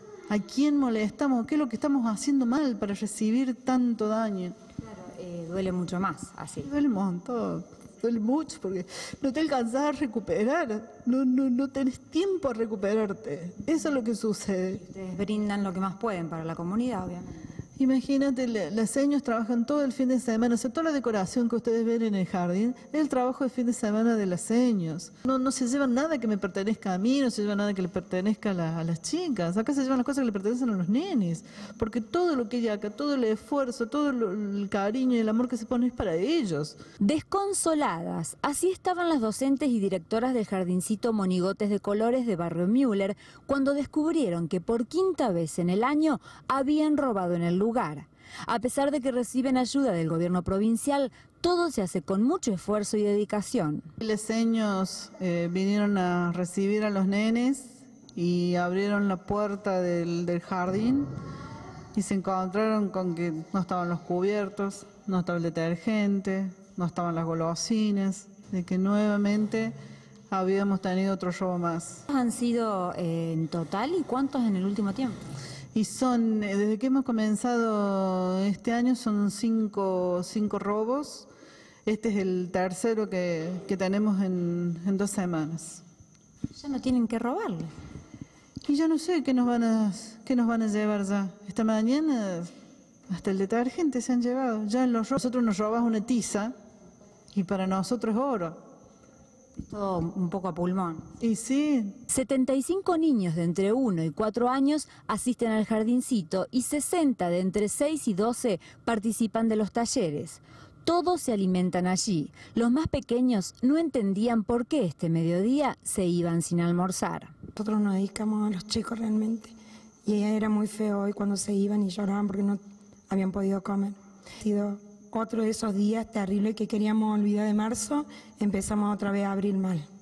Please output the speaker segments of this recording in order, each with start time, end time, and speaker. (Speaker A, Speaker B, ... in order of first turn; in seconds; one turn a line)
Speaker A: 0.3-4.6
Speaker B: 4.8-6.7
Speaker A: 6.6-14.8
Speaker B: 14.8-17.4
Speaker A: 17.8-36.8
Speaker B: 37.0-53.9
Speaker A: 54.0-61.1
Speaker A: 62.0-69.8
Speaker A: 70.3-72.0
Speaker B: 72.1-75.3
Speaker A: 75.8-81.3
Speaker A: 81.9-85.8
Speaker B: 86.5-87.7
Speaker A: 88.6-92.5
Speaker A: 93.1-96.5
Speaker A: 97.3-98.6
Speaker B: 99.6-101.1
Speaker A: 101.2-102.0
Speaker B: 102.1-117.3
Speaker C: 117.5-119.5
Speaker C: 120.0-129.9